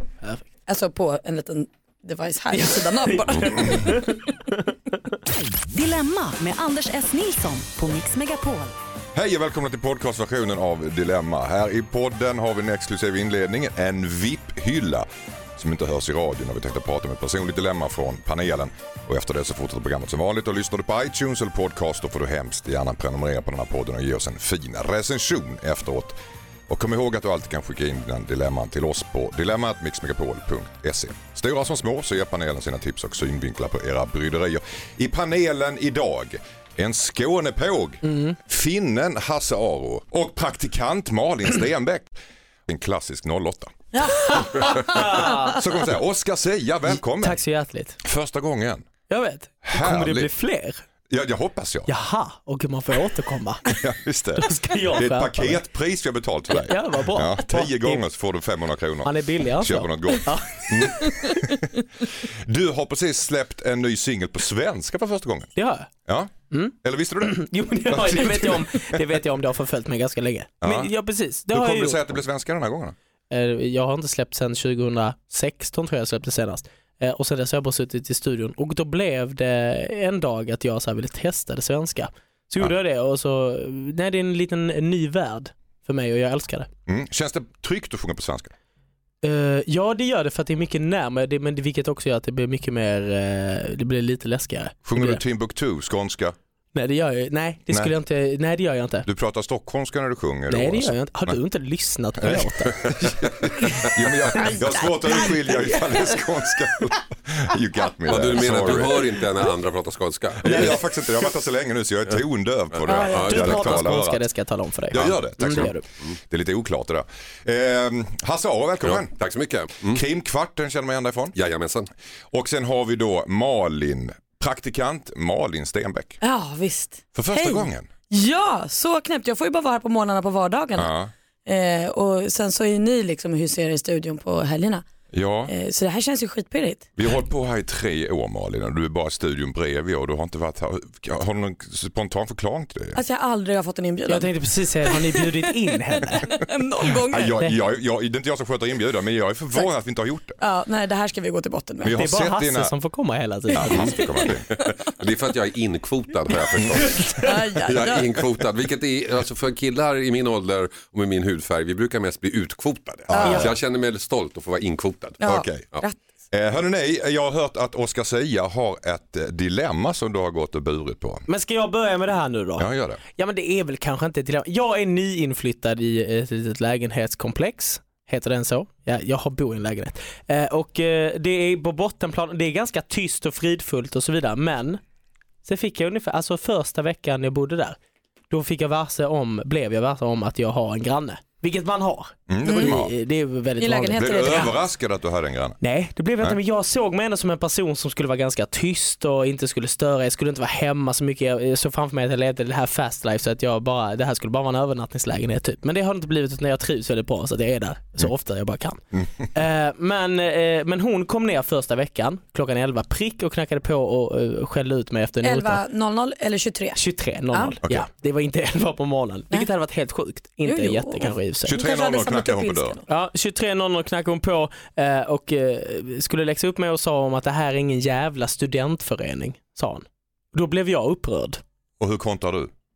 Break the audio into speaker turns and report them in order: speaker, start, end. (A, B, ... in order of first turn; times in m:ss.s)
0:00.7-0:04.2 A
0:02.5-0:04.3 B
0:03.4-0:03.9 C
0:05.7-0:08.7 D
0:09.1-0:42.1 C
0:38.0-0:38.4 B
0:42.7-0:43.7 C
0:43.9-0:45.3 A
0:44.1-0:45.6 B
0:45.5-0:47.4 C
0:46.9-0:48.0 B
0:48.0-0:48.8 C
0:49.1-0:50.8 B
0:49.6-0:50.3 C
0:51.1-0:51.9 C
0:51.9-0:53.6 B
0:53.7-1:05.5 C
0:54.4-0:55.6 B
0:56.6-0:58.0 B
0:59.0-1:01.5 B
1:05.6-1:05.9 B
1:06.0-1:08.6 C
1:06.5-1:12.0 B
1:10.6-1:10.9 C
1:11.5-1:12.9 C
1:13.3-1:26.7 B
1:26.9-1:28.5 C
1:29.2-1:35.2 B
1:34.8-1:36.4 C
1:36.7-1:39.1 B
1:37.7-1:37.9 C
1:39.0-1:41.4 C
1:40.5-1:42.9 B
1:42.2-1:49.2 C
1:44.4-1:46.2 A
1:48.1-1:50.7 E
1:50.4-1:54.2 C
1:50.4-1:50.8 B
1:52.7-1:53.8 E
1:52.9-1:53.3 A
1:52.9-1:55.8 B
1:54.9-1:59.2 C
1:58.8-2:00.0 E
1:59.8-2:01.4 C
2:01.3-2:01.9 E
2:02.3-2:06.2 C
2:06.2-2:10.9 A
2:07.1-2:07.9 C
2:10.8-2:11.1 C
2:11.4-2:14.8 A
2:15.1-2:15.5 C
2:15.5-2:16.9 A
2:17.0-2:23.0 C
2:22.9-2:24.3 A
2:24.1-2:26.3 B
2:24.9-2:25.5 A
2:26.3-2:27.4 A
2:27.1-2:30.4 C
2:30.4-2:32.0 A
2:31.8-2:32.7 C
2:32.0-2:34.0 B
2:33.5-2:34.5 C
2:34.5-2:37.0 E
2:37.0-2:38.0 A
2:37.6-2:45.2 E
2:43.1-2:43.5 C
2:43.1-2:43.5 A
2:43.2-2:43.5 B
2:45.2-2:45.6 C
2:45.2-2:46.0 A
2:46.3-2:51.2 C
2:51.3-3:04.8 B
2:52.6-2:53.0 C
3:05.4-3:07.8 B
3:08.3-3:14.5 B
3:12.3-3:12.9 C
3:12.4-3:12.8 A
3:13.6-3:14.6 A
3:14.0-3:15.6 C
3:15.6-3:28.8 B
3:29.3-3:35.6 B
3:35.2-3:36.8 A
3:36.7-3:41.6 B
3:40.4-3:42.8 A
3:41.4-3:42.8 C
3:42.9-3:51.4 B
3:51.8-3:52.5 C